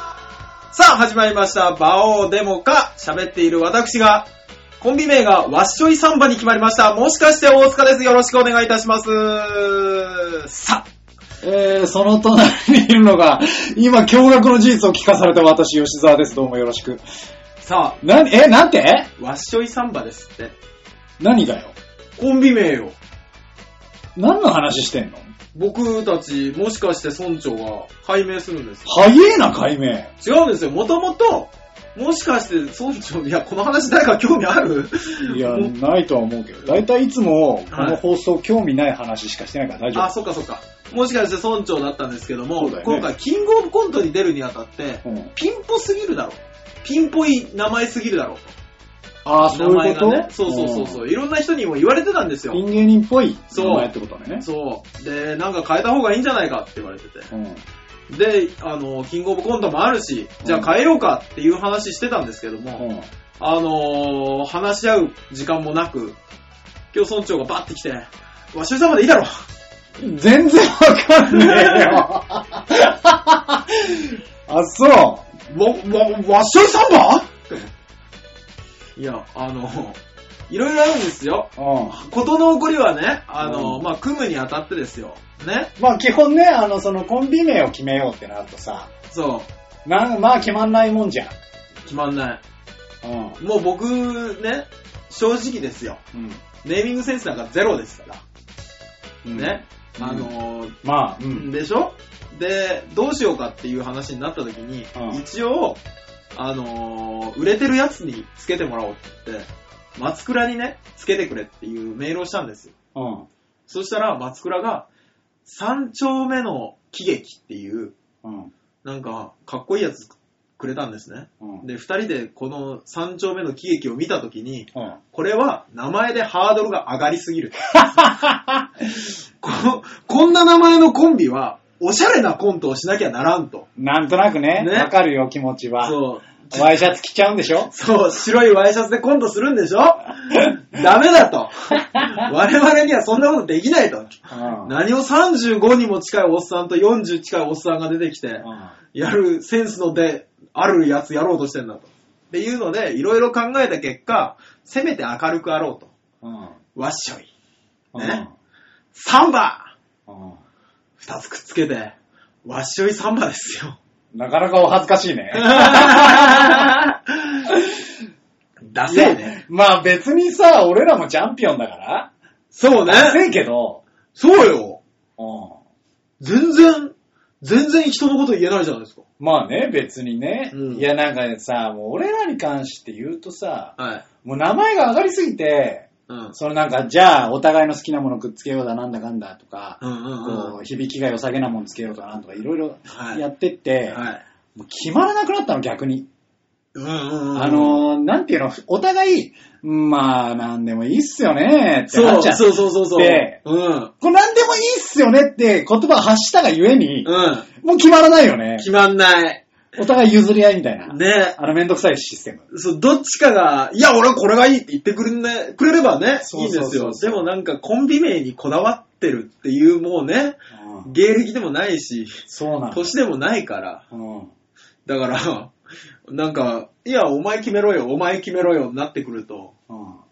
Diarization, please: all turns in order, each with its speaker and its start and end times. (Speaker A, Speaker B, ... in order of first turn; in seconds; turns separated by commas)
Speaker A: 0.7-10.8, Speaker B: 11.4-17.0, Speaker A: 17.6-18.0, Speaker B: 18.0-19.1, Speaker A: 19.2-20.5, Speaker B: 21.2-21.7, Speaker A: 22.2-22.9, Speaker B: 24.1-25.3, Speaker A: 25.5-29.0, Speaker B: 28.9-30.1, Speaker A: 30.2-35.7, Speaker B: 35.2-40.1, Speaker A: 37.7-38.0, Speaker A: 39.9-48.5, Speaker B: 42.6-43.1, Speaker B: 45.0-45.3, Speaker B: 49.2-51.0, Speaker A: 49.5-52.6, Speaker B: 52.5-54.4, Speaker A: 53.5-57.3, Speaker B: 57.3-57.6, Speaker A: 58.1-62.8, Speaker B: 60.4-60.7, Speaker B: 62.8-63.1, Speaker A: 63.4-66.2, Speaker A: 66.9-69.4, Speaker B: 70.0-75.3, Speaker A: 71.3-72.0, Speaker A: 75.5-77.7, Speaker A: 79.0-85.7, Speaker B: 81.6-82.0, Speaker B: 83.4-83.8, Speaker B: 85.8-88.9, Speaker A: 89.1-89.5, Speaker B: 89.8-91.3, Speaker A: 91.8-92.4, Speaker B: 93.0-93.4, Speaker A: 93.4-96.0, Speaker B: 96.1-96.4, Speaker A: 96.6-98.2, Speaker B: 99.2-100.3, Speaker A: 99.3-100.8, Speaker B: 100.8-101.5, Speaker A: 101.3-105.8, Speaker B: 104.9-105.2, Speaker A: 106.3-112.7, Speaker B: 112.9-113.3, Speaker A: 113.7-114.9, Speaker A: 115.4-117.9, Speaker B: 118.2-118.5, Speaker A: 118.8-128.1, Speaker B: 127.8-128.7, Speaker A: 129.0-133.7, Speaker B: 133.8-137.7, Speaker A: 134.6-134.9, Speaker A: 135.8-136.8, Speaker A: 137.7-155.9, Speaker B: 144.3-144.8, Speaker B: 148.4-148.7, Speaker B: 156.2-156.6, Speaker A: 156.7-157.3, Speaker B: 157.9-158.3, Speaker A: 157.9-158.2, Speaker A: 158.9-159.7, Speaker B: 160.1-160.4, Speaker A: 161.0-163.8, Speaker B: 164.1-166.7, Speaker A: 165.3-167.5, Speaker B: 167.5-167.8, Speaker A: 168.6-169.4, Speaker B: 168.9-172.1, Speaker A: 172.5-173.2, Speaker B: 172.8-173.8, Speaker A: 174.2-174.8, Speaker B: 175.2-175.6, Speaker A: 176.2-179.0, Speaker B: 179.2-194.0, Speaker A: 180.5-180.8, Speaker A: 183.8-184.0, Speaker A: 186.1-186.3, Speaker A: 189.8-190.5, Speaker A: 192.9-193.2, Speaker A: 193.9-194.2, Speaker B: 194.5-196.1, Speaker A: 196.7-197.8, Speaker B: 197.3-203.4, Speaker A: 201.9-203.9, Speaker B: 204.0-208.7, Speaker A: 207.0-207.5, Speaker A: 208.6-209.4, Speaker B: 209.8-212.4, Speaker A: 210.8-211.3, Speaker A: 212.5-223.8, Speaker B: 216.2-217.3, Speaker B: 220.5-220.9, Speaker B: 222.3-222.9, Speaker B: 223.9-224.3, Speaker A: 224.8-225.5, Speaker A: 226.1-229.5, Speaker B: 229.7-230.0